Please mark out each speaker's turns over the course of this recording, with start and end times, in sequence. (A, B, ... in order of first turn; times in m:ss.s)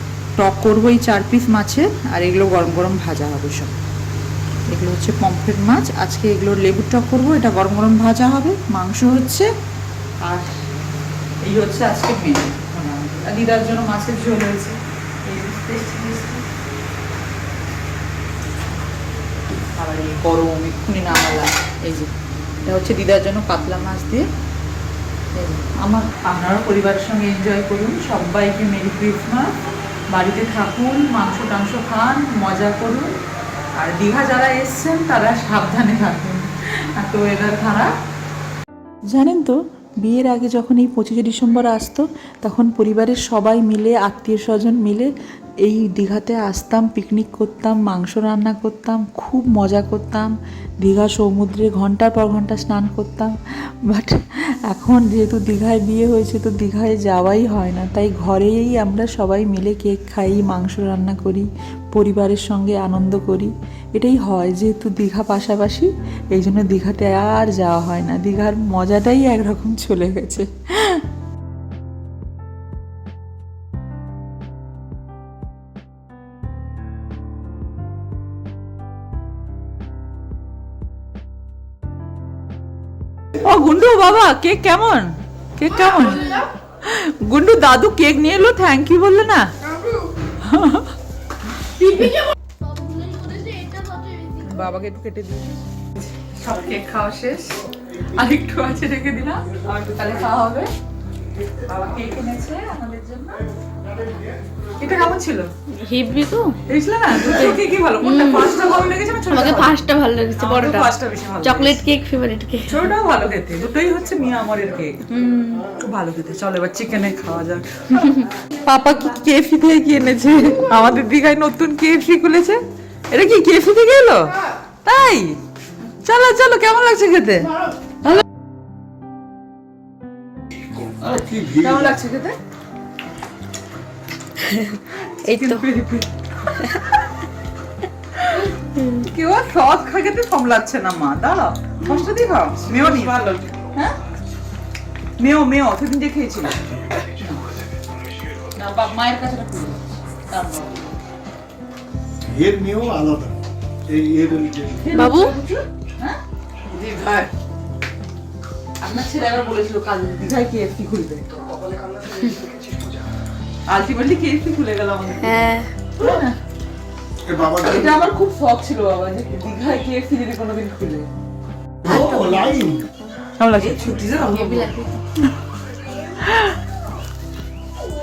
0:00.4-0:03.7 A
0:04.7-0:09.5 A
0:10.2-0:10.6 A
0:11.4-0:16.4 A
0:19.8-0:22.1 A
0:22.6-0:24.3 A
0:25.3-0:29.5 A
0:30.1-0:33.1 A
0:33.8-0:37.9 A
0:39.1-0:45.1 A
0:45.6-0:53.3 A
0:53.8-1:11.0 A
1:23.4-1:29.5 A
1:30.4-1:30.9 A
1:31.8-1:32.2 A
1:34.3-1:40.7 A
1:41.7-1:43.4 A
1:44.8-1:45.5 A
1:45.7-1:46.6 B
1:46.7-1:49.8 A
1:47.2-1:48.7 B
1:49.3-1:50.9 B
1:50.4-1:51.8 A
1:51.4-1:52.9 B
1:52.7-2:04.3 A
2:04.8-2:05.4 A
2:06.0-2:07.5 A
2:11.0-2:12.4 A
2:14.4-2:15.6 B
2:14.9-2:17.0 A
2:18.2-2:23.9 A
2:18.8-2:19.0 B
2:25.2-2:27.4 A
2:28.5-2:30.9 A
2:32.2-2:34.7 C
2:34.6-2:36.2 A
2:34.9-2:35.4 B
2:36.7-2:37.3 A
2:38.8-2:41.5 A
2:43.7-2:46.4 A
2:45.2-2:45.7 B
2:47.3-2:47.6 C
2:47.4-2:51.1 A
2:51.8-2:52.5 A
2:51.8-2:52.8 B
2:53.4-2:54.7 A
2:53.6-2:55.0 B
2:56.2-2:56.6 A